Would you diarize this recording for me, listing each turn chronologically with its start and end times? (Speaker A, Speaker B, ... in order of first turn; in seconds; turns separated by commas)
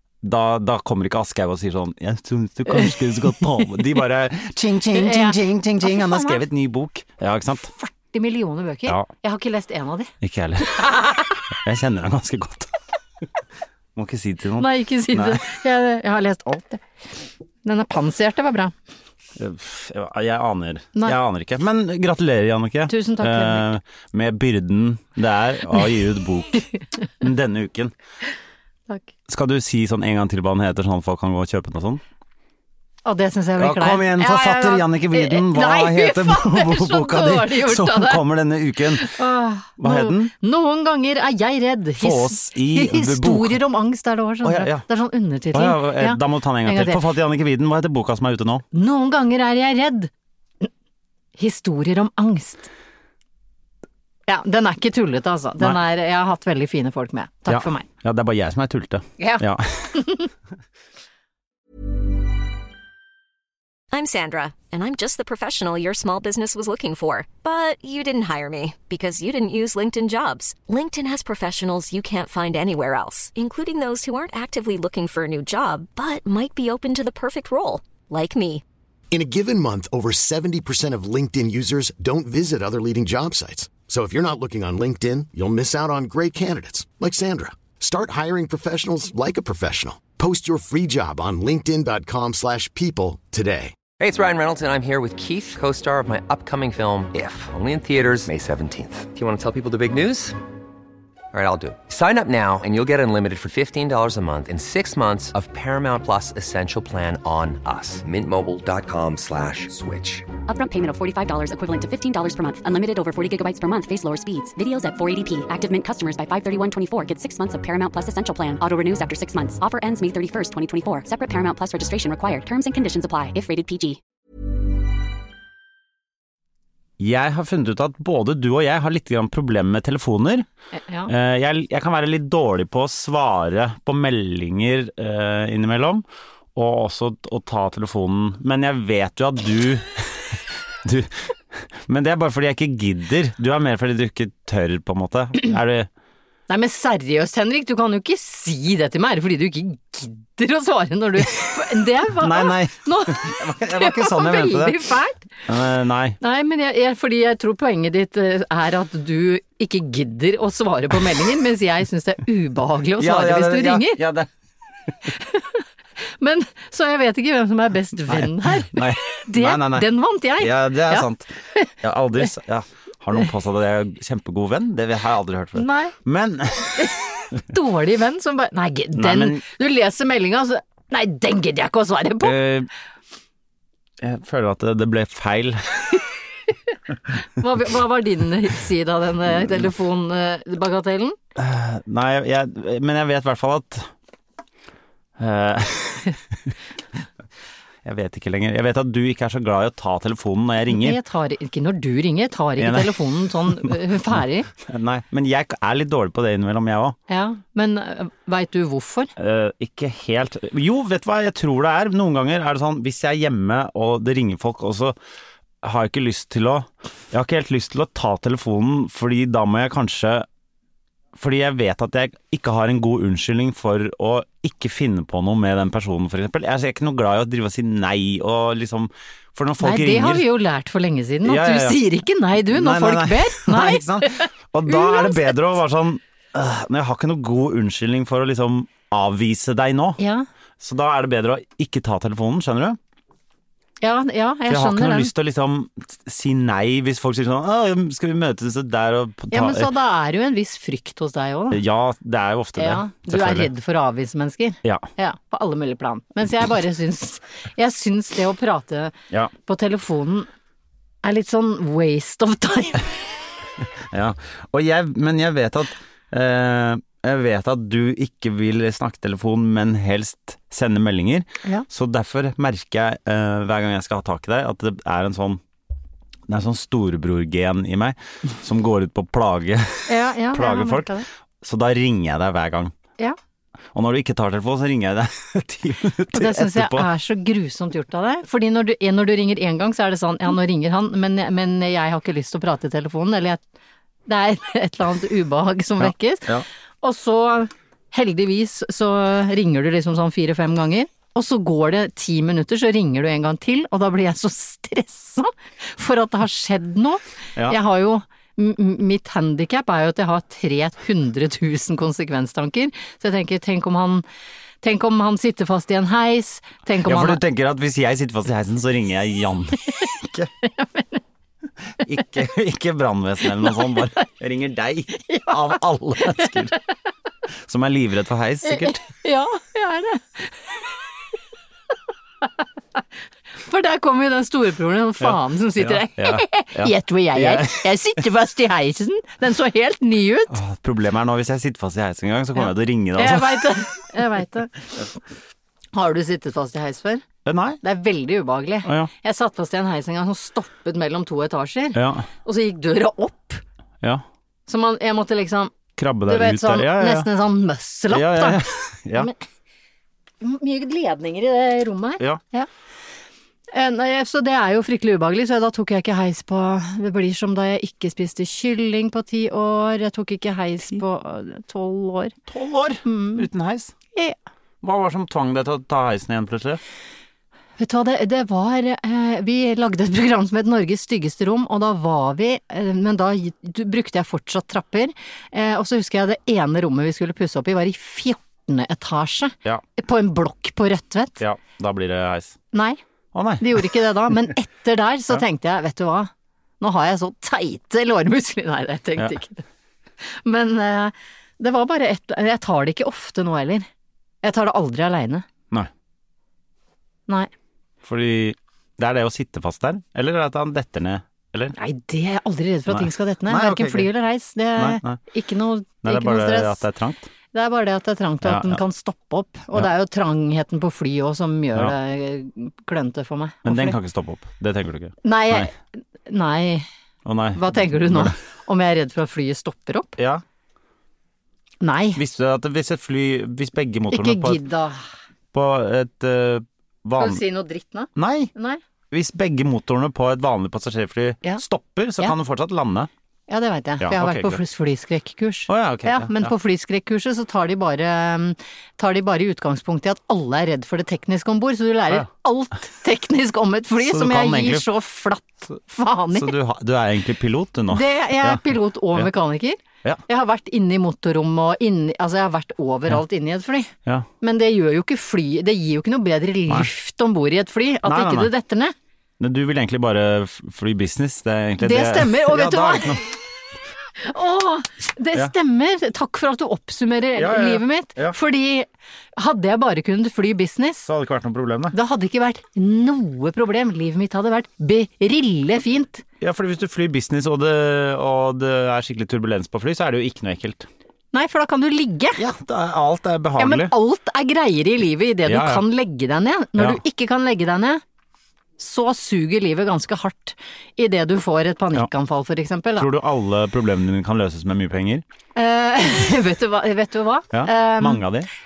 Speaker A: 0.2-7.7, Speaker B: 4.9-6.4, Speaker B: 7.6-10.1, Speaker A: 10.2-10.8, Speaker B: 10.6-11.4, Speaker A: 11.5-12.7, Speaker A: 13.9-15.4, Speaker B: 14.6-16.8, Speaker B: 17.6-18.7, Speaker A: 19.4-26.7, Speaker B: 22.9-23.7, Speaker A: 27.2-27.9, Speaker A: 29.3-32.0, Speaker B: 33.0-38.2, Speaker A: 33.6-39.1, Speaker B: 38.9-47.0, Speaker A: 39.8-40.3, Speaker A: 42.0-43.6, Speaker A: 44.4-44.8, Speaker A: 45.5-48.6, Speaker B: 48.7-50.1, Speaker B: 51.4-52.7, Speaker B: 54.3-57.9, Speaker A: 57.5-60.0, Speaker B: 59.2-60.3, Speaker C: 63.9-78.6, Speaker D: 79.1-93.8, Speaker E: 94.0-100.4, Speaker E: 101.3-110.3, Speaker F: 110.5-124.0, Speaker A: 127.0-130.5, Speaker B: 130.8-131.1, Speaker A: 131.1-136.0, Speaker A: 136.5-145.9, Speaker B: 146.5-155.2, Speaker A: 152.1-154.8, Speaker A: 155.5-156.2, Speaker B: 156.2-164.0, Speaker A: 163.0-164.3, Speaker B: 165.1-165.6, Speaker B: 166.2-171.7, Speaker A: 168.1-171.3, Speaker A: 171.8-176.9, Speaker B: 175.6-175.9, Speaker B: 176.8-182.4, Speaker A: 178.9-179.4, Speaker A: 182.2-182.7, Speaker A: 184.0-186.0, Speaker B: 187.2-191.2, Speaker A: 191.4-193.9, Speaker A: 195.2-196.2, Speaker A: 197.8-201.0, Speaker B: 200.7-204.5, Speaker A: 202.6-207.0, Speaker B: 207.1-209.1, Speaker A: 209.2-215.0, Speaker A: 215.6-220.2, Speaker A: 221.1-230.3, Speaker B: 229.6-235.4, Speaker A: 231.2-231.8, Speaker A: 232.4-240.0, Speaker B: 240.0-240.2, Speaker A: 240.6-242.8, Speaker B: 243.8-245.1, Speaker A: 244.5-249.7, Speaker B: 249.3-251.6, Speaker A: 251.5-253.5, Speaker B: 252.6-258.9, Speaker B: 259.5-260.3, Speaker B: 261.0-262.9, Speaker A: 263.9-275.4, Speaker A: 276.3-282.7, Speaker B: 279.9-281.1, Speaker A: 283.7-286.9, Speaker B: 286.1-293.4, Speaker B: 294.1-314.0, Speaker A: 295.8-296.4, Speaker B: 314.6-317.2, Speaker A: 316.8-320.3, Speaker B: 320.4-321.0, Speaker A: 321.8-326.5, Speaker B: 325.0-325.5, Speaker A: 327.4-328.8, Speaker B: 328.5-330.6, Speaker B: 333.4-340.4, Speaker A: 335.0-337.9, Speaker A: 340.3-343.5, Speaker B: 342.4-344.9, Speaker B: 345.7-347.0, Speaker A: 347.2-347.6, Speaker B: 347.6-353.4, Speaker A: 348.6-348.9, Speaker A: 351.7-352.1, Speaker B: 354.5-355.5, Speaker A: 355.8-357.1, Speaker B: 356.1-358.4, Speaker A: 357.9-359.1, Speaker B: 360.2-362.5, Speaker B: 363.5-372.1, Speaker A: 372.3-373.7, Speaker B: 372.9-373.2, Speaker A: 374.6-376.6, Speaker B: 377.6-391.2, Speaker A: 391.2-392.4, Speaker B: 392.5-392.8, Speaker A: 393.1-393.7, Speaker B: 393.4-399.4, Speaker B: 400.0-403.7, Speaker B: 404.2-405.2, Speaker A: 407.8-411.6, Speaker B: 411.5-416.6, Speaker A: 412.7-413.9, Speaker A: 414.6-415.0, Speaker A: 415.8-417.1, Speaker B: 417.3-423.8, Speaker A: 418.2-418.6, Speaker A: 423.4-425.5, Speaker B: 425.0-426.6, Speaker A: 427.0-428.1, Speaker B: 427.4-430.0, Speaker A: 430.0-430.2, Speaker B: 431.6-432.0, Speaker A: 432.0-434.4, Speaker B: 433.9-434.8, Speaker A: 435.3-437.2, Speaker B: 437.0-438.6, Speaker A: 437.9-438.3, Speaker A: 438.9-442.9, Speaker B: 443.3-456.3, Speaker A: 443.8-444.4, Speaker A: 445.5-446.3, Speaker A: 453.8-454.7, Speaker A: 456.1-459.1, Speaker B: 457.7-468.7, Speaker A: 467.8-468.3, Speaker A: 469.2-473.1, Speaker B: 471.6-473.1, Speaker B: 474.0-480.9, Speaker A: 477.1-478.2, Speaker A: 480.9-481.8, Speaker B: 481.7-486.0, Speaker A: 486.2-490.7, Speaker B: 491.1-492.2, Speaker A: 492.2-493.7, Speaker B: 493.4-497.8, Speaker A: 495.3-495.6, Speaker B: 498.6-502.9, Speaker A: 502.8-505.0, Speaker B: 505.4-508.0, Speaker A: 507.3-508.3